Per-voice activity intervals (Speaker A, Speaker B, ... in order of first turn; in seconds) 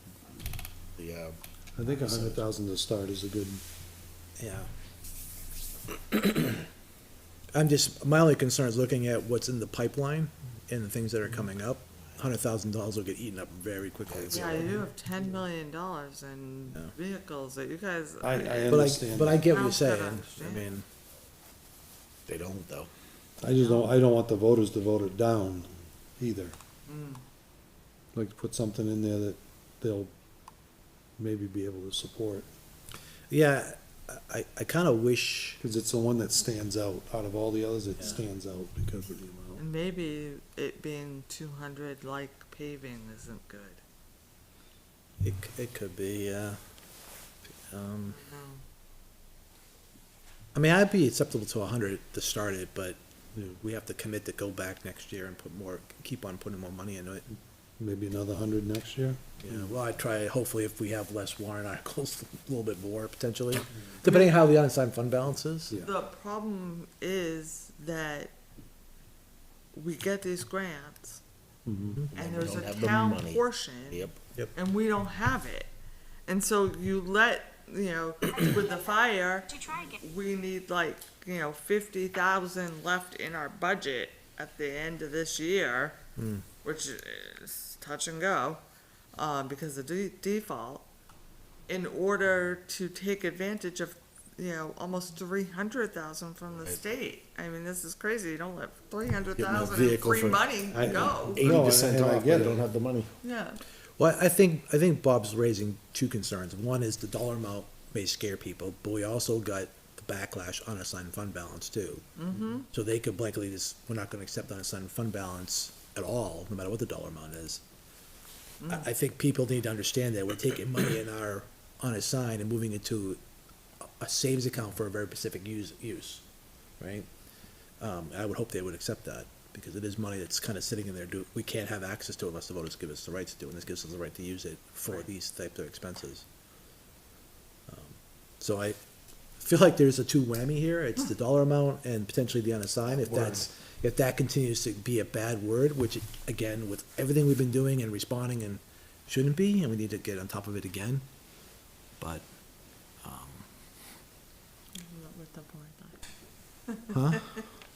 Speaker A: 1.0-1.4, 2.1-2.4, 14.1-14.6, 22.3-22.9, 72.1-74.2, 99.4-100.5, 101.2-103.1, 142.9-143.4
Speaker B: 1.8-3.6, 18.2-19.5, 23.4-26.5, 28.1-30.1, 31.2-32.5, 35.6-39.6, 57.8-59.7, 71.7-72.0, 100.7-102.6
Speaker C: 4.4-4.7, 7.5-14.8, 18.7-20.9, 33.3-35.6, 45.2-48.2, 50.5-57.2, 59.4-65.8, 86.2-86.5, 104.0-112.0, 112.7-117.6, 118.7-123.2, 124.0-126.2, 126.8-127.1, 127.8-136.2, 137.7-138.8, 139.3-151.1, 152.0-153.5, 156.9-157.4
Speaker D: 14.3-18.8, 19.5-20.6, 23.6-23.9, 26.9-27.2, 39.5-43.8, 48.1-48.6, 64.1-64.3, 65.8-68.3, 69.7-71.2, 72.1-75.7, 76.3-86.0, 86.6-90.9, 91.7-101.5, 103.2-103.6, 112.2-112.7, 118.6-118.9, 154.8-156.0, 156.7-157.4